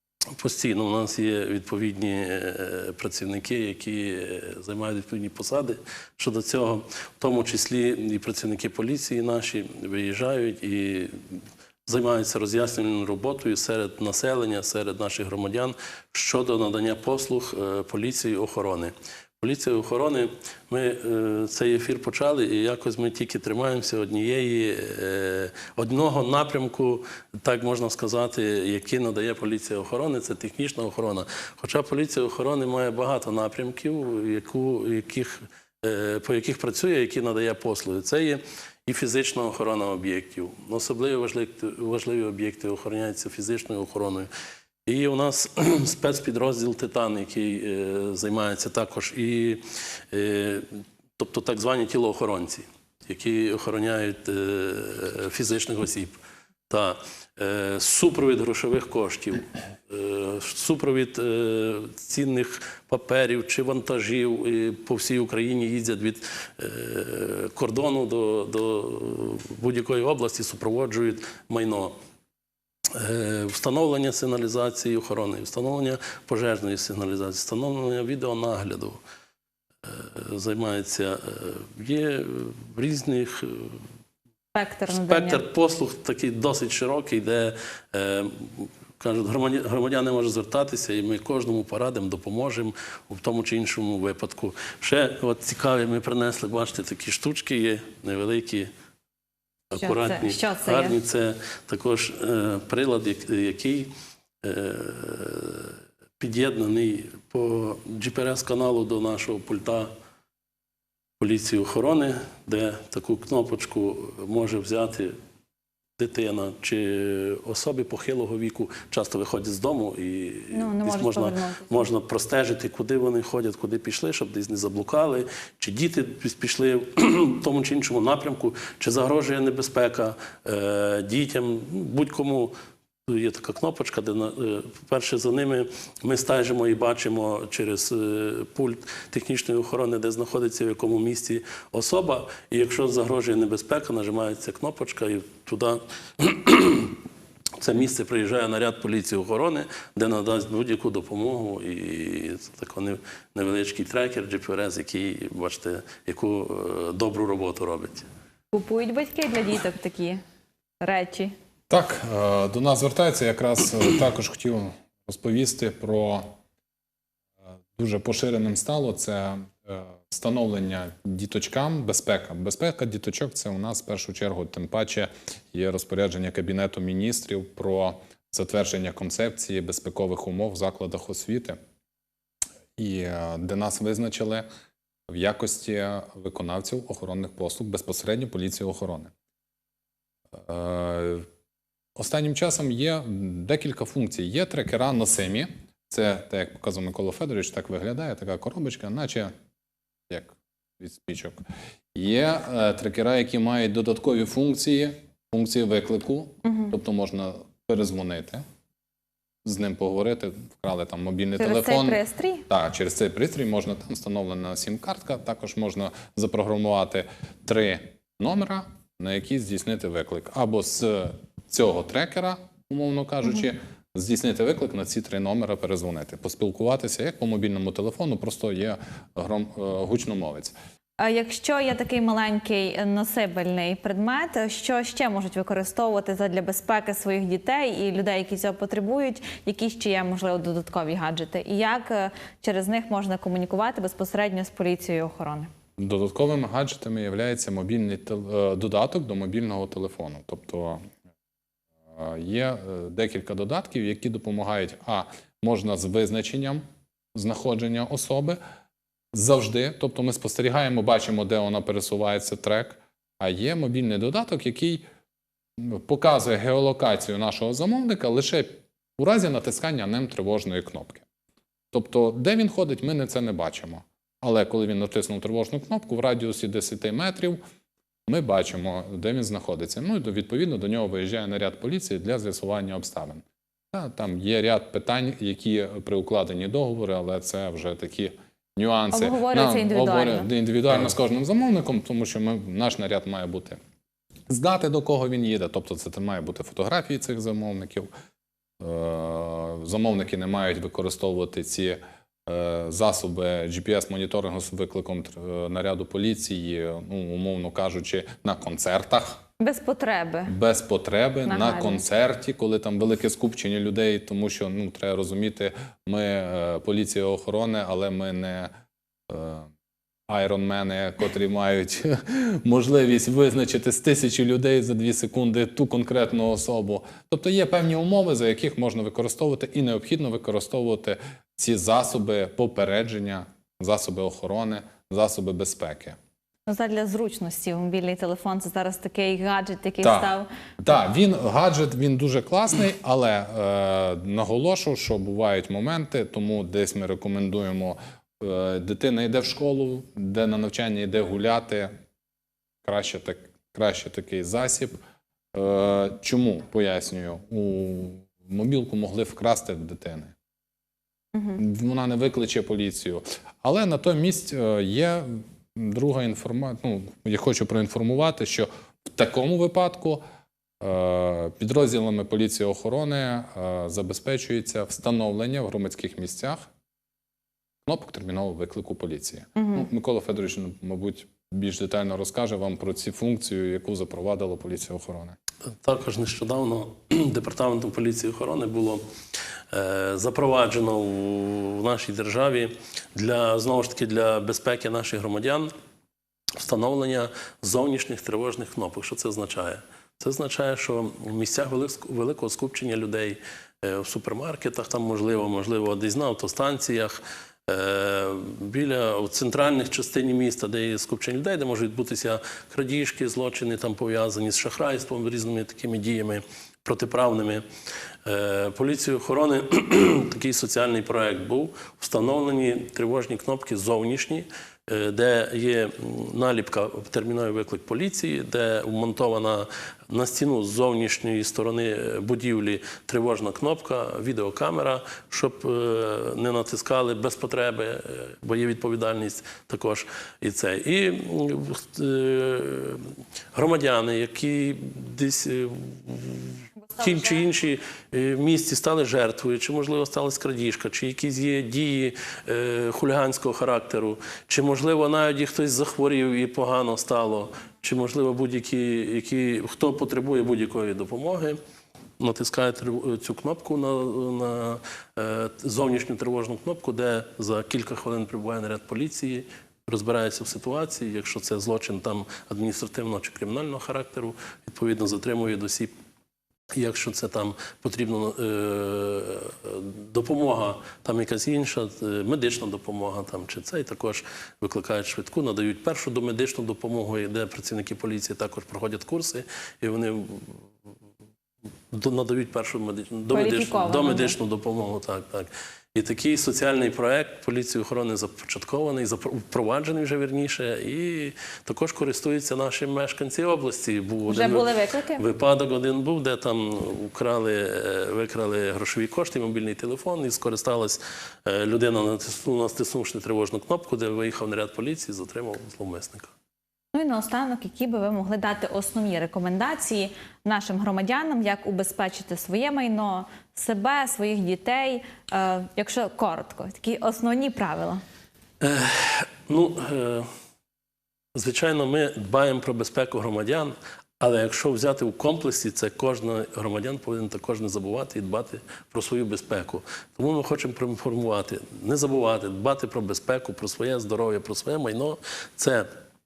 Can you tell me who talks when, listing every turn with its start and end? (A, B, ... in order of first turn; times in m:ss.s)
0:00.4-0:44.3 A
0:44.9-0:56.2 A
0:56.7-1:12.0 A
1:12.9-1:19.0 A
1:19.8-1:23.8 A
1:24.5-1:25.4 B
1:24.9-1:38.7 A
1:39.7-1:43.9 A
1:39.8-1:41.0 B
1:44.4-1:49.9 A
1:51.2-1:55.2 A
1:56.0-2:12.5 A
2:00.5-2:01.9 B
2:13.1-2:27.0 A
2:27.6-2:38.1 A
2:38.5-2:40.2 B
2:40.8-2:41.3 B
2:41.7-2:46.4 C
2:47.8-3:01.6 C
3:02.8-3:04.5 C
3:05.1-3:09.1 C
3:10.3-3:11.3 C
3:12.0-3:19.3 C
3:20.1-3:21.4 C
3:21.9-3:28.4 C
3:26.4-3:26.7 B
3:29.4-3:50.5 C
3:31.4-3:32.4 B
3:51.0-4:05.5 B
4:05.8-4:10.8 C
4:11.9-4:16.6 C
4:17.1-4:18.4 C
4:19.1-4:24.8 C
4:25.6-4:31.1 C
4:31.7-4:37.4 C
4:38.1-4:53.6 C
4:48.9-4:50.3 B
4:54.3-4:57.9 C
4:58.6-5:09.2 C
5:09.4-5:10.4 B
5:10.3-5:18.5 C
5:11.2-5:11.8 B
5:19.1-5:19.5 C
5:20.1-5:36.0 C
5:36.5-5:40.3 B
5:39.8-5:51.7 C
5:52.6-5:54.8 C
5:55.3-6:00.1 C
6:01.4-6:10.0 C
6:10.6-6:16.4 C
6:17.7-6:25.2 C
6:19.4-6:19.7 B
6:25.6-6:28.8 A
6:29.5-6:35.5 A
6:36.4-6:57.4 A
6:58.0-7:41.4 A
7:42.0-7:55.7 A
7:56.5-8:10.5 A
8:11.7-8:36.1 A
8:13.1-8:14.2 B
8:24.1-8:25.0 B
8:36.7-8:47.8 B
8:48.4-8:50.1 A
8:51.2-9:05.7 A